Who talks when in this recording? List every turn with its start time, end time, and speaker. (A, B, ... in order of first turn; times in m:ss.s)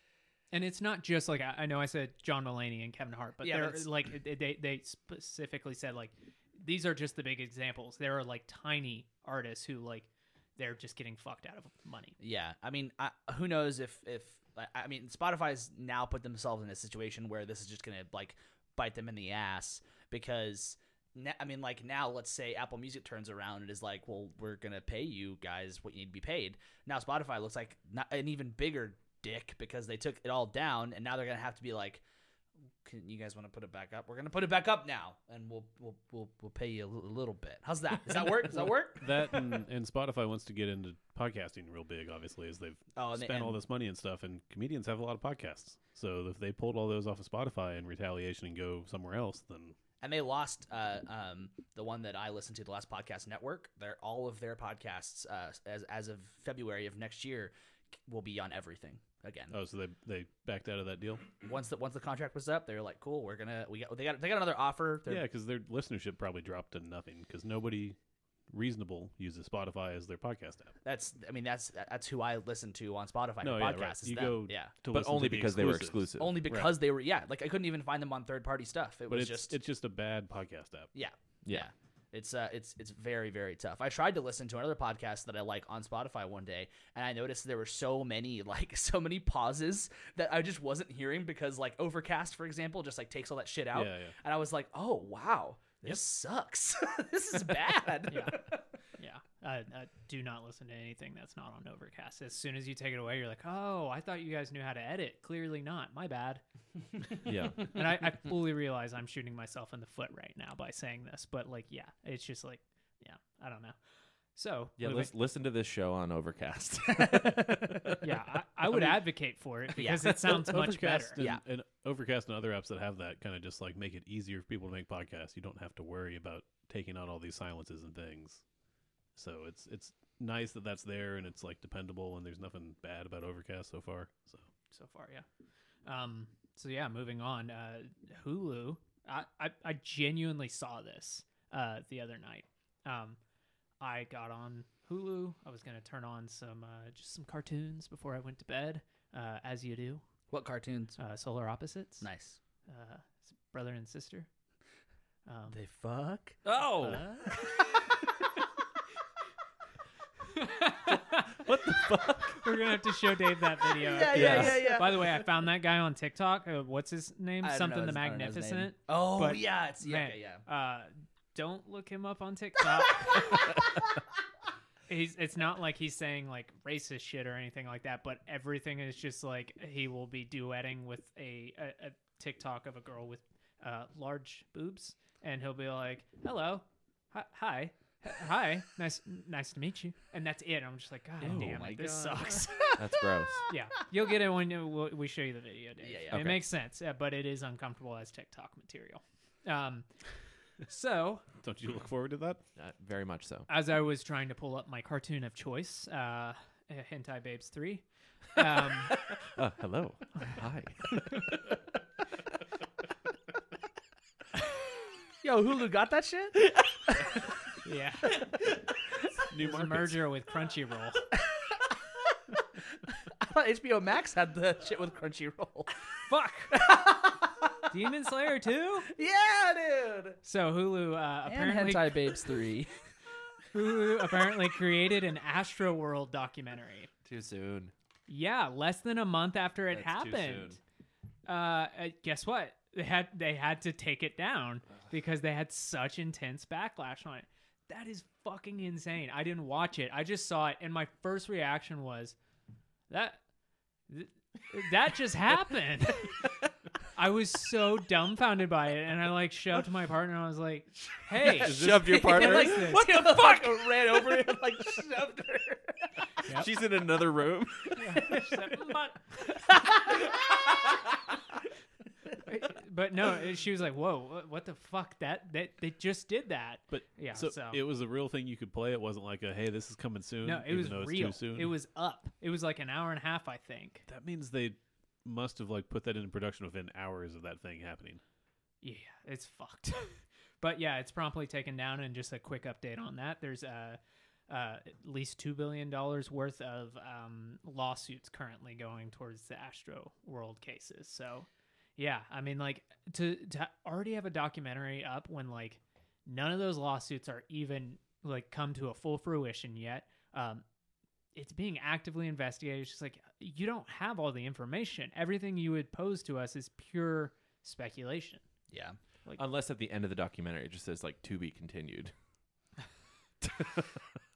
0:00.5-0:12.2 A
0:03.4-0:03.9 B
0:12.2-0:32.0 B
0:32.8-0:39.3 B
0:38.5-0:49.8 C
0:42.9-0:43.6 B
0:50.0-0:57.5 B
0:58.0-0:59.5 B
0:59.5-1:01.2 C
1:01.4-1:05.2 B
1:05.1-1:08.0 C
1:08.5-1:10.7 C
1:10.8-1:14.7 B
1:13.4-1:16.7 C
1:14.9-1:16.5 D
1:16.2-1:19.6 B
1:19.1-1:20.9 C
1:20.9-1:38.5 B
1:33.7-1:34.1 C
1:38.1-1:38.4 A
1:39.0-1:46.4 A
1:47.2-1:47.7 D
1:47.6-1:53.8 A
1:54.3-1:55.1 A
1:54.8-1:57.8 D
1:57.0-1:58.0 B
1:58.0-2:01.2 A
1:58.7-1:59.1 C
1:59.8-2:00.5 B
2:00.0-2:08.4 C
2:01.2-2:01.4 B
2:09.2-2:14.5 C
2:14.7-2:15.2 A
2:15.8-2:23.2 A
2:23.8-2:30.0 A
2:30.3-2:31.0 B
2:31.0-2:32.1 A
2:32.0-2:32.4 B
2:32.7-2:34.3 A
2:35.2-2:35.6 A
2:35.5-2:36.4 B
2:36.4-2:37.1 D
2:36.8-2:37.5 A
2:40.3-2:41.4 A
2:41.1-2:42.6 D
2:42.3-2:53.7 A
2:43.8-2:45.2 B
2:44.1-2:44.8 D
2:47.4-2:50.4 B
2:54.9-3:12.9 A
3:11.2-3:11.7 D
3:11.3-3:12.8 B
3:12.8-3:13.4 D
3:13.5-3:19.9 A
3:15.8-3:16.3 B
3:16.1-3:16.4 D
3:20.7-3:21.2 A
3:21.4-3:22.4 C
3:22.6-3:23.5 D
3:23.5-3:29.1 A
3:29.3-3:31.3 D
3:35.2-3:37.1 B
3:37.6-3:38.4 A
3:39.3-3:40.1 C
3:39.4-3:41.1 A
3:41.3-3:41.6 B
3:43.0-3:45.7 B
3:46.1-3:46.6 A
3:46.5-3:47.7 B
3:47.7-3:48.9 A
3:48.9-3:50.2 B
3:50.2-3:52.3 A
3:51.2-3:52.7 B
3:53.5-3:56.9 A
3:57.0-3:57.7 D
3:58.1-4:00.6 A
3:59.7-4:00.6 D
4:01.2-4:12.2 A
4:12.9-4:13.2 A
4:13.9-4:16.3 A
4:16.9-4:23.0 A
4:21.2-4:25.8 B
4:21.3-4:22.8 D
4:26.2-4:26.5 A
4:26.2-4:28.0 D
4:27.8-4:29.6 A
4:28.0-4:28.2 B
4:29.7-4:30.1 B
4:32.2-4:37.6 A
4:36.7-4:41.5 C
4:40.2-4:43.8 A
4:43.9-4:48.0 C
4:48.6-5:10.4 A
5:11.1-5:18.2 A
5:18.5-5:18.8 B
5:19.2-5:21.9 D
5:23.2-5:23.8 D